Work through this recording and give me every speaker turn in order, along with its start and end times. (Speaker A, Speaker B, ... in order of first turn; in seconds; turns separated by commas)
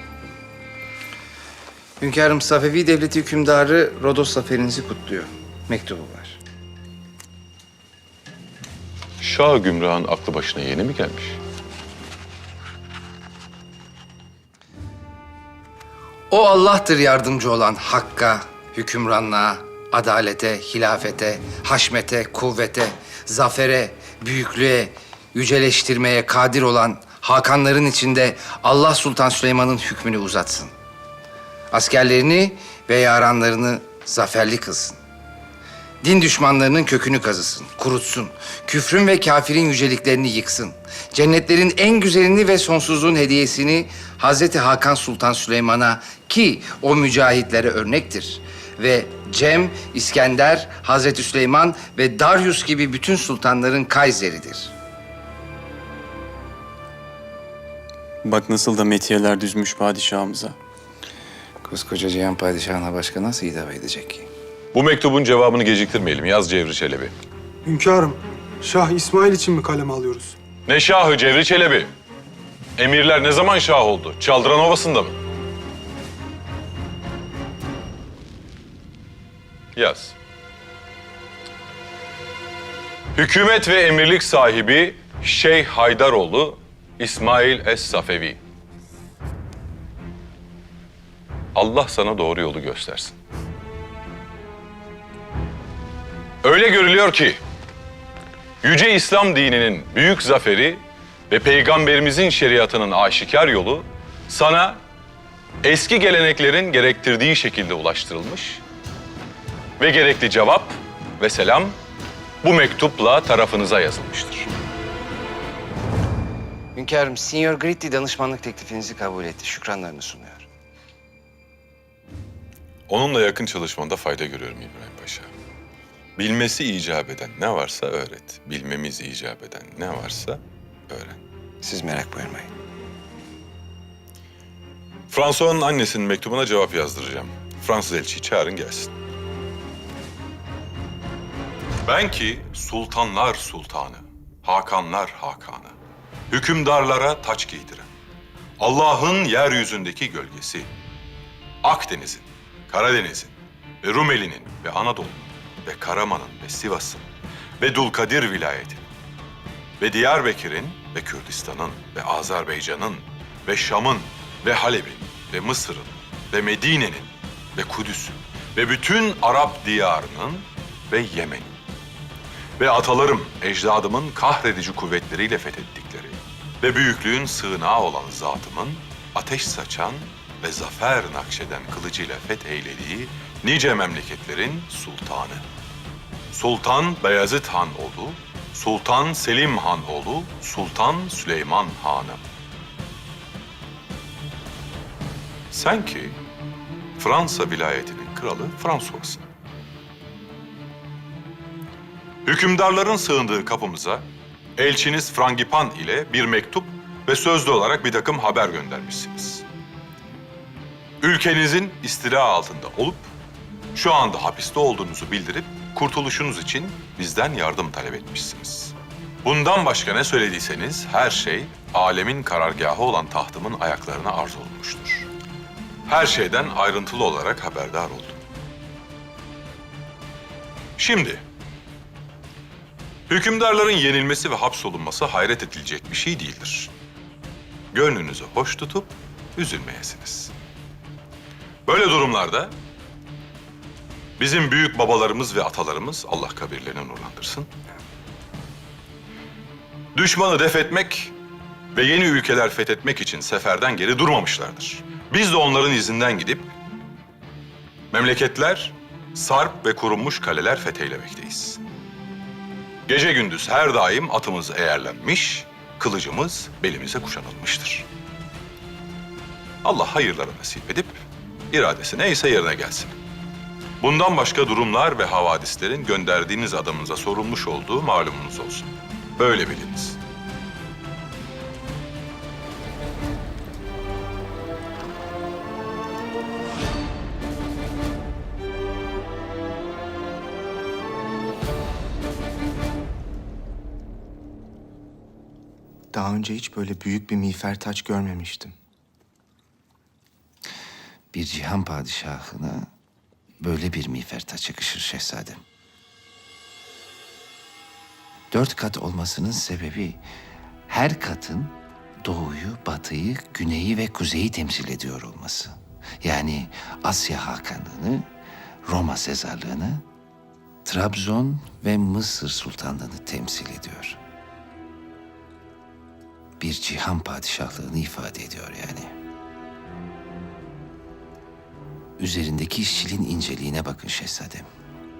Speaker A: 2.0-6.4, Speaker B: 9.2-11.4, Speaker A: 16.3-30.7, Speaker A: 31.7-35.0, Speaker A: 36.0-54.7, Speaker C: 58.2-60.5, Speaker A: 61.6-64.3, Speaker B: 64.7-67.1, Speaker D: 67.6-70.3, Speaker B: 70.7-71.9, Speaker B: 72.8-75.2, Speaker B: 79.7-80.1, Speaker B: 83.1-88.4, Speaker B: 91.5-93.2, Speaker B: 96.4-97.4, Speaker B: 98.6-104.8, Speaker B: 105.6-108.6, Speaker B: 109.8-111.8, Speaker B: 112.4-114.5, Speaker A: 116.7-120.5, Speaker B: 122.9-125.3, Speaker B: 126.2-131.2, Speaker A: 131.6-132.5, Speaker B: 135.1-138.9, Speaker B: 141.8-145.7, Speaker B: 146.3-147.9, Speaker B: 148.6-150.7, Speaker B: 151.6-157.0, Speaker B: 157.6-158.8, Speaker B: 159.8-171.5, Speaker B: 172.6-185.4, Speaker B: 186.3-192.2, Speaker B: 195.5-196.2, Speaker B: 197.0-199.2, Speaker B: 202.2-204.0, Speaker B: 204.6-209.4, Speaker B: 211.0-213.1, Speaker B: 213.7-225.1, Speaker B: 225.8-228.2, Speaker B: 230.8-231.2, Speaker B: 233.1-236.7, Speaker B: 237.7-240.3, Speaker B: 241.7-242.5, Speaker B: 244.2-247.5, Speaker B: 249.9-251.1, Speaker B: 251.7-256.5, Speaker B: 257.9-261.6, Speaker B: 262.9-267.9, Speaker B: 269.6-271.0, Speaker B: 271.5-272.9, Speaker B: 273.8-280.0, Speaker E: 295.9-298.6, Speaker A: 301.1-302.7, Speaker A: 303.4-305.4, Speaker A: 308.3-310.0, Speaker A: 310.7-318.1, Speaker A: 318.6-319.8, Speaker A: 320.6-324.0, Speaker A: 326.4-328.9, Speaker A: 332.0-334.5